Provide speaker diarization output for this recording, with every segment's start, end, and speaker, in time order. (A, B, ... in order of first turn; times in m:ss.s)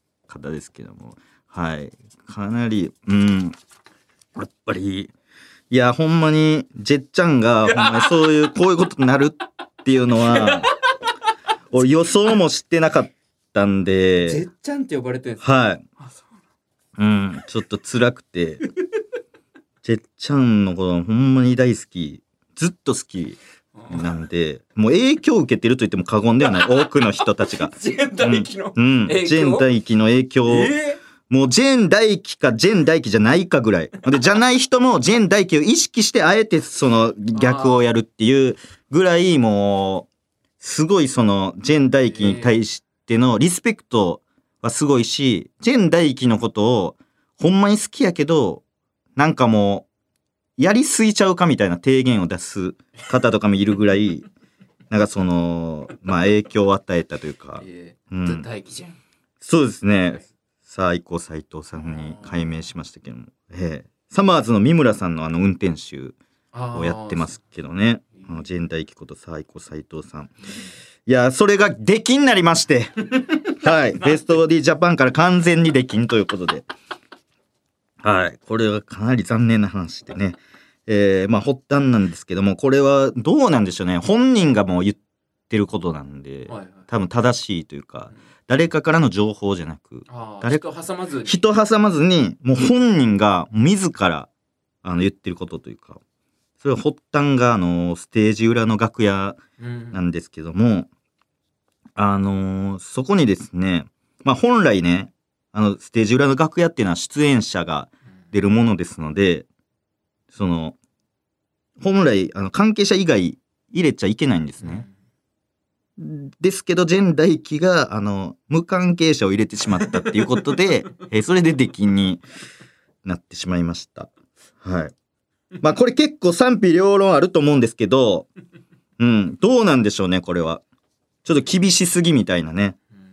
0:00.3-0:03.6 A
0:04.4-0:05.1 A
0:05.7-0:10.7 A
0:07.8-0:08.1 B
0:10.2-0:10.6 B
0:11.7-0:14.4 A
0:14.2-0:15.4 B
0:15.4-0:15.8 A
0:16.0-0:16.3 B
0:17.0-0:18.6 A
0:19.8-0:30.7 A
0:27.7-0:29.7 B
0:30.4-0:31.0 B
0:31.3-0:40.1 A
0:37.3-0:37.8 B
0:40.6-0:48.6 A
0:42.1-0:42.6 B
0:49.2-0:49.8 A
0:50.6-0:54.3 A
0:54.9-0:58.5 A
0:57.6-0:59.0 B
0:59.4-1:06.2 A
1:01.9-1:02.4 B
1:06.5-1:07.3 B
1:06.7-1:10.3 A
1:11.0-1:16.7 A
1:18.0-1:25.0 A
1:25.5-1:30.6 A
1:26.5-1:26.9 B
1:30.1-1:31.4 B
1:31.2-1:34.3 A
1:34.8-1:36.0 A
1:36.6-1:39.4 A
1:39.6-1:40.0 B
1:39.9-1:40.9 A
1:42.0-1:49.5 A
1:50.3-1:50.8 A
1:51.8-1:54.8 A
1:54.6-1:54.9 B
1:56.0-2:02.2 A
2:03.0-2:04.1 A
2:04.6-2:04.9 A
2:05.6-2:08.3 A
2:09.0-2:10.6 A
2:11.2-2:12.8 A